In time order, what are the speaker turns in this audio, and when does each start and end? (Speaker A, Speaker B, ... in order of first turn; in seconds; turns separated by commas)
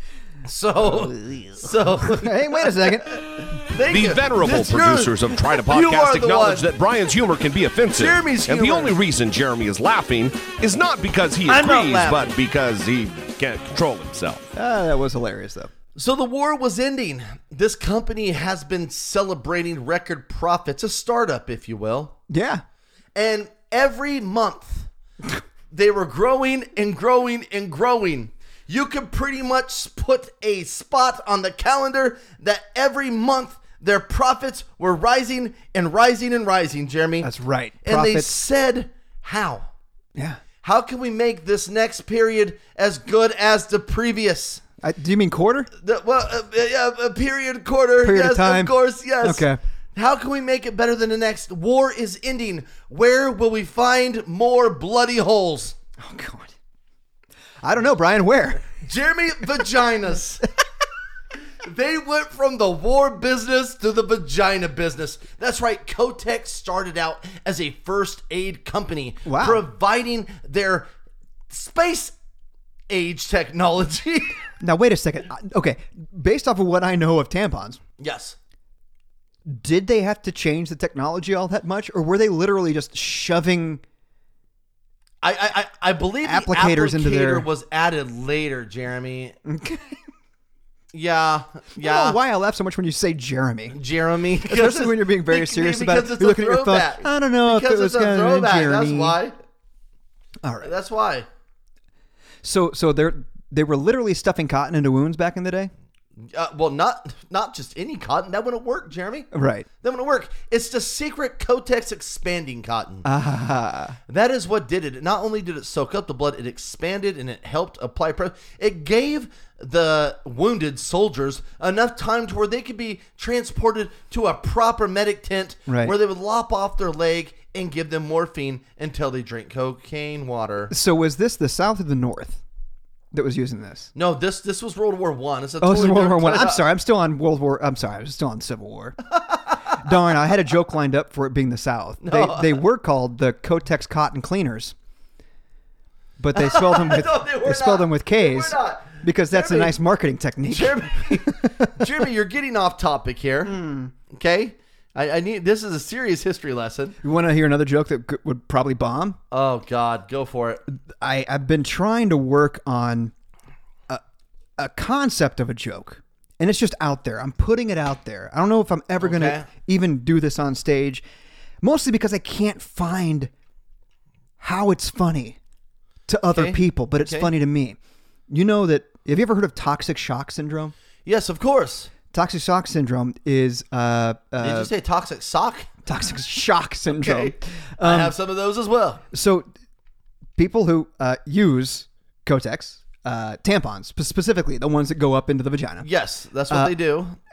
Speaker A: 0.4-6.7, Speaker B: 2.0-3.2, Speaker C: 3.9-14.5, Speaker A: 7.9-8.9, Speaker A: 11.4-12.3, Speaker B: 14.5-15.7, Speaker A: 15.9-22.1, Speaker B: 22.3-22.6, Speaker A: 23.1-24.9, Speaker A: 25.7-37.3, Speaker B: 37.2-38.4, Speaker A: 37.8-39.7, Speaker B: 40.1-40.4, Speaker A: 40.6-44.6, Speaker B: 44.8-45.7, Speaker A: 45.7-55.7, Speaker B: 48.0-49.6, Speaker B: 56.0-56.5, Speaker B: 57.6-58.7, Speaker A: 58.8-60.4, Speaker A: 61.6-70.9, Speaker B: 69.2-69.7, Speaker A: 71.5-72.1, Speaker A: 72.9-74.4, Speaker B: 74.6-77.8, Speaker A: 78.0-78.3, Speaker B: 79.5-83.8, Speaker A: 85.2-89.4, Speaker B: 86.2-87.5, Speaker B: 89.4-90.0, Speaker A: 90.9-92.2, Speaker B: 91.8-93.8, Speaker A: 93.7-99.3, Speaker B: 94.4-99.2, Speaker B: 100.4-100.7, Speaker A: 100.6-101.2, Speaker B: 102.4-105.7, Speaker A: 106.2-109.3, Speaker B: 109.3-109.7, Speaker A: 109.8-113.0, Speaker B: 113.0-114.0, Speaker A: 114.1-130.7, Speaker B: 125.7-125.9, Speaker B: 130.7-132.4, Speaker B: 133.1-133.9, Speaker A: 133.9-136.6, Speaker B: 135.6-139.0, Speaker B: 139.8-144.7, Speaker A: 142.0-142.6, Speaker B: 146.2-151.9, Speaker A: 146.3-149.8, Speaker A: 150.5-153.6, Speaker B: 153.4-153.9, Speaker A: 154.1-157.0, Speaker B: 157.0-159.2, Speaker A: 159.3-160.6, Speaker B: 161.0-163.1, Speaker B: 164.6-171.0, Speaker A: 169.0-169.5, Speaker B: 171.6-173.3, Speaker B: 174.4-175.4, Speaker B: 176.1-177.8, Speaker A: 176.3-177.3, Speaker B: 178.3-180.7, Speaker A: 181.0-181.9, Speaker B: 182.1-184.7, Speaker A: 184.4-185.7, Speaker B: 185.8-188.2, Speaker A: 186.9-189.0, Speaker B: 189.1-189.5, Speaker B: 190.4-195.9, Speaker A: 195.8-197.2, Speaker B: 196.5-196.7